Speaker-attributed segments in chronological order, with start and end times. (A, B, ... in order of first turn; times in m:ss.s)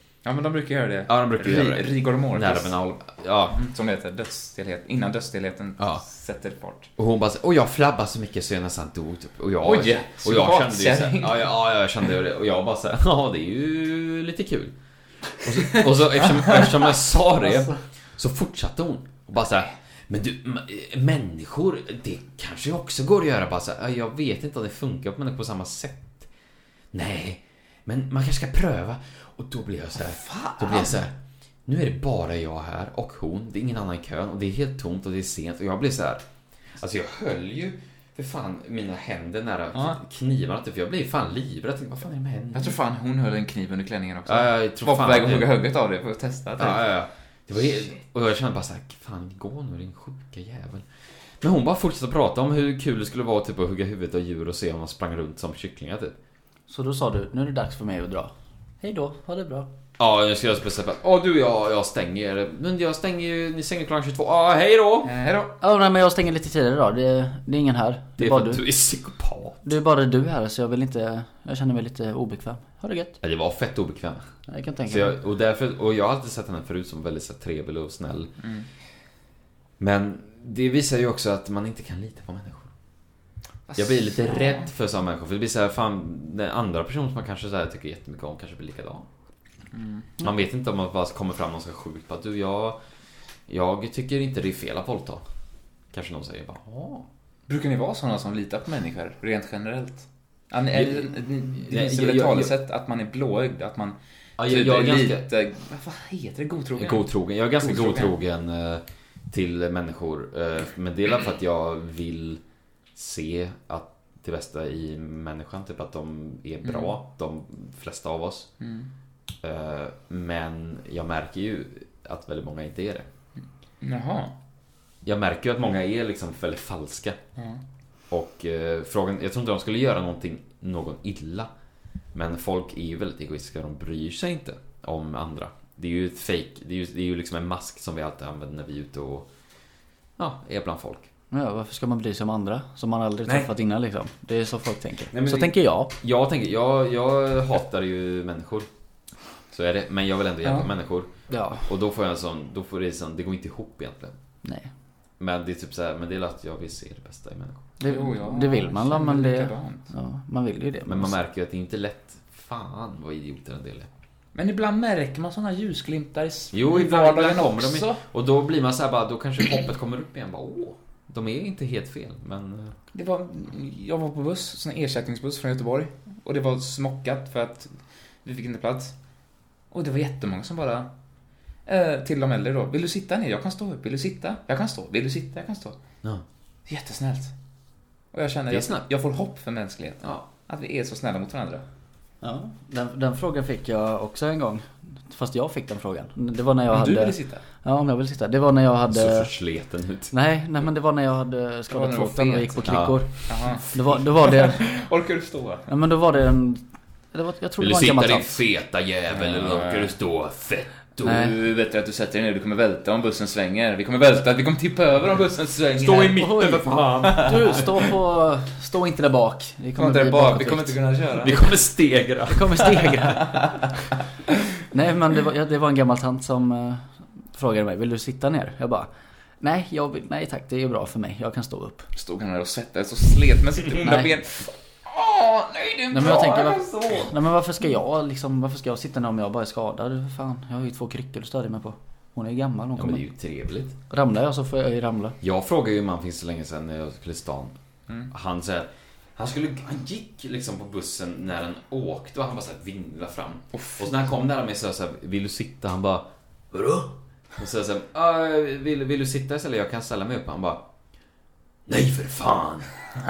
0:00.2-0:02.8 A
0:01.1-0:03.6 B
0:03.5-0:06.9 A
0:07.0-0:14.8 B
0:09.6-0:11.5 A
0:15.4-0:26.3 B
0:26.9-0:31.2 B
0:30.2-0:31.0 A
0:31.7-0:36.2 B
0:36.8-0:42.8 B
0:42.5-0:46.8 A
0:44.3-0:45.6 B
0:46.6-0:50.9 B
0:51.4-0:56.2 B
0:56.7-0:59.7 C
1:00.0-1:05.1 B
1:05.0-1:05.6 A
1:05.6-1:08.6 C
1:08.2-1:09.6 B
1:09.6-1:13.2 C
1:13.2-1:14.3 B
1:14.5-1:15.2 C
1:14.9-1:18.3 B
1:18.4-1:18.7 A
1:19.8-1:22.7 B
1:23.7-1:24.7 A
1:23.8-1:29.1 B
1:29.7-1:30.1 A
1:30.2-1:32.8 B
1:33.5-1:35.2 B
1:35.9-1:37.1 B
1:37.5-1:48.2 A
1:40.7-1:42.5 B
1:44.4-1:45.3 B
1:46.8-1:52.4 B
1:53.0-1:58.5 B
1:56.6-1:57.0 A
1:58.6-1:58.9 A
1:59.4-2:03.1 B
2:03.8-2:04.4 A
2:05.0-2:07.2 B
2:08.1-2:11.5 B
2:12.1-2:19.3 B
2:20.2-2:21.1 B
2:21.3-2:25.9 C
2:25.1-2:28.7 B
2:29.5-2:34.1 B
2:30.4-2:30.7 A
2:31.3-2:31.7 C
2:34.4-2:34.7 C
2:35.2-2:37.7 B
2:37.8-2:41.1 C
2:37.8-2:39.9 A
2:40.8-2:43.9 B
2:44.4-2:48.0 A
2:46.5-2:52.8 B
2:52.9-2:57.7 A
2:58.2-2:59.0 A
2:59.7-3:00.9 A
3:01.7-3:05.8 A
3:06.7-3:07.3 A
3:08.1-3:11.6 A
3:08.5-3:08.8 B
3:12.2-3:19.3 C
3:16.7-3:17.4 A
3:18.9-3:20.1 B
3:20.1-3:24.7 C
3:21.7-3:25.7 A
3:22.6-3:23.5 B
3:25.7-3:26.6 C
3:27.1-3:28.4 C
3:27.6-3:31.4 B
3:29.1-3:30.0 A
3:31.0-3:31.4 C
3:31.0-3:37.7 A
3:35.8-3:37.7 B
3:36.0-3:40.8 C
3:39.8-3:41.5 A
3:41.2-3:42.9 B
3:42.3-3:43.7 C
3:43.1-3:43.5 A
3:44.7-3:48.9 C
3:49.4-3:51.9 C
3:52.0-3:57.2 A
3:53.8-3:54.2 C
3:55.9-4:03.0 C
4:02.8-4:03.8 B
4:03.9-4:05.2 C
4:05.2-4:07.6 B
4:08.1-4:20.7 B
4:13.5-4:13.9 A
4:21.7-4:22.7 B